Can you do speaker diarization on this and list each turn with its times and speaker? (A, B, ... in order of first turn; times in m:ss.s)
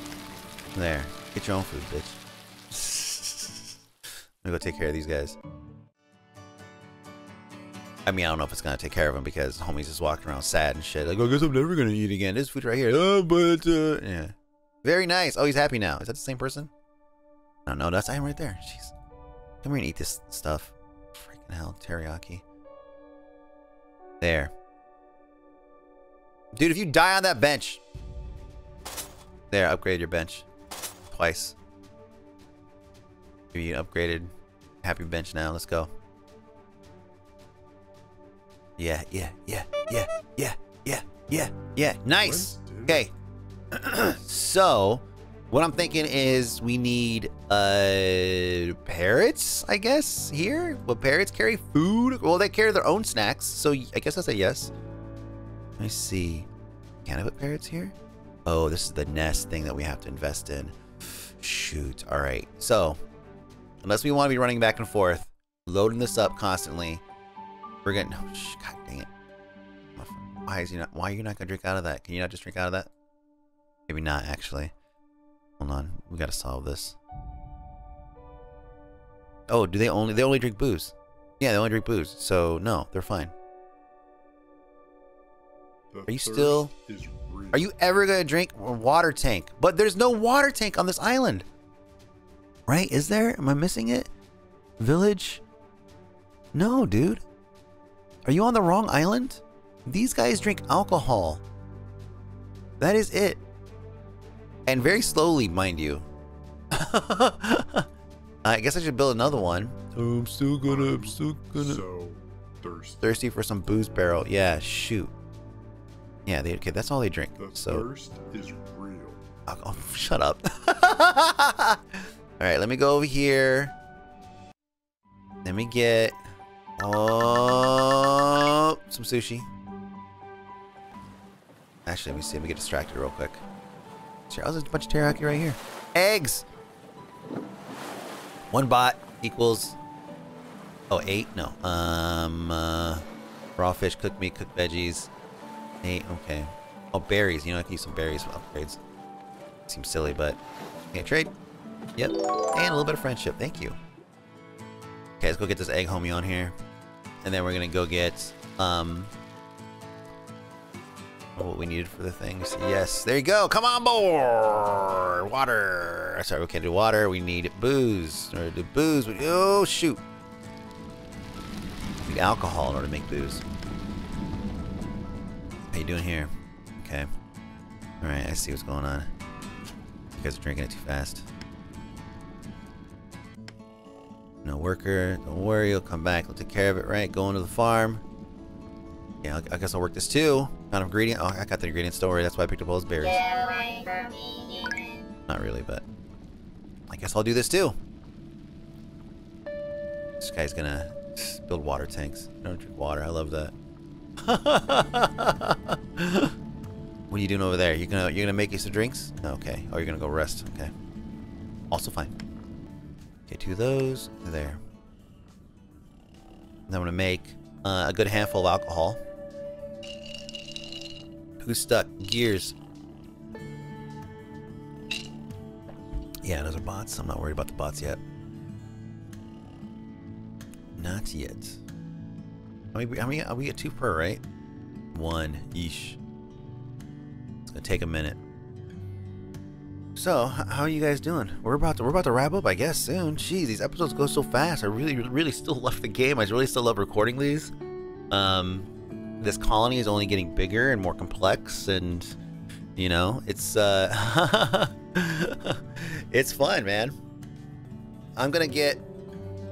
0:00.7-0:02.2 A
0:02.7-0:03.7 A
0:04.4-0:05.4 A
0:08.0-0:16.7 A
0:17.6-0:18.9 A
0:19.6-0:22.4 A
0:24.2-0:24.5 A
0:26.5-0:27.8 A
0:29.5-0:30.4 A
0:31.1-0:31.6 A
0:33.5-0:34.3 A
0:34.8-0:35.9 A
0:38.8-0:43.1 A
0:42.2-0:43.1 B
0:43.7-0:54.7 A
0:55.8-0:56.5 A
0:57.0-0:57.9 A
0:58.4-1:00.8 A
1:01.4-1:03.0 A
1:03.8-1:07.0 A
1:07.8-1:09.1 A
1:10.0-1:12.9 A
1:13.9-1:14.7 A
1:15.6-1:17.0 A
1:19.5-1:23.3 A
1:25.9-1:27.7 B
1:26.1-1:26.7 A
1:27.5-1:31.4 A
1:32.7-1:34.1 A
1:34.8-1:35.4 A
1:36.5-1:37.2 A
1:38.2-1:41.4 A
1:42.8-1:43.4 A
1:44.6-1:46.0 A
1:46.7-1:47.9 A
1:48.4-1:51.8 A
1:50.6-1:53.2 B
1:53.0-1:55.1 A
1:56.2-1:57.9 A
1:57.4-1:59.2 B
1:59.5-2:03.7 A
2:05.4-2:06.2 A
2:06.8-2:09.5 A
2:11.8-2:13.4 A
2:14.3-2:16.4 A
2:18.5-2:19.8 A
2:20.9-2:23.0 A
2:23.6-2:25.1 A
2:25.8-2:28.8 A
2:29.7-2:30.4 A
2:30.9-2:31.3 A
2:32.0-2:33.8 A
2:35.2-2:36.5 A
2:37.2-2:39.1 A
2:41.4-2:50.0 A
2:52.0-2:53.4 A
2:55.7-2:57.1 A
2:58.0-2:59.1 A
3:00.2-3:01.2 A
3:04.4-3:08.0 A
3:09.2-3:13.2 A
3:13.0-3:15.1 C
3:15.3-3:15.8 A
3:16.9-3:17.7 A
3:20.2-3:23.5 A
3:24.2-3:26.3 A
3:27.1-3:30.7 A
3:31.7-3:32.1 A
3:33.3-3:34.6 A
3:36.7-3:39.0 A
3:41.4-3:42.5 A
3:46.2-3:48.0 A
3:50.8-3:51.6 A
3:52.7-3:54.2 A
3:54.9-3:56.0 A
3:57.4-3:58.2 A
4:00.0-4:07.5 A
4:08.1-4:08.7 A
4:09.2-4:12.2 A
4:12.8-4:16.9 A
4:18.2-4:18.8 A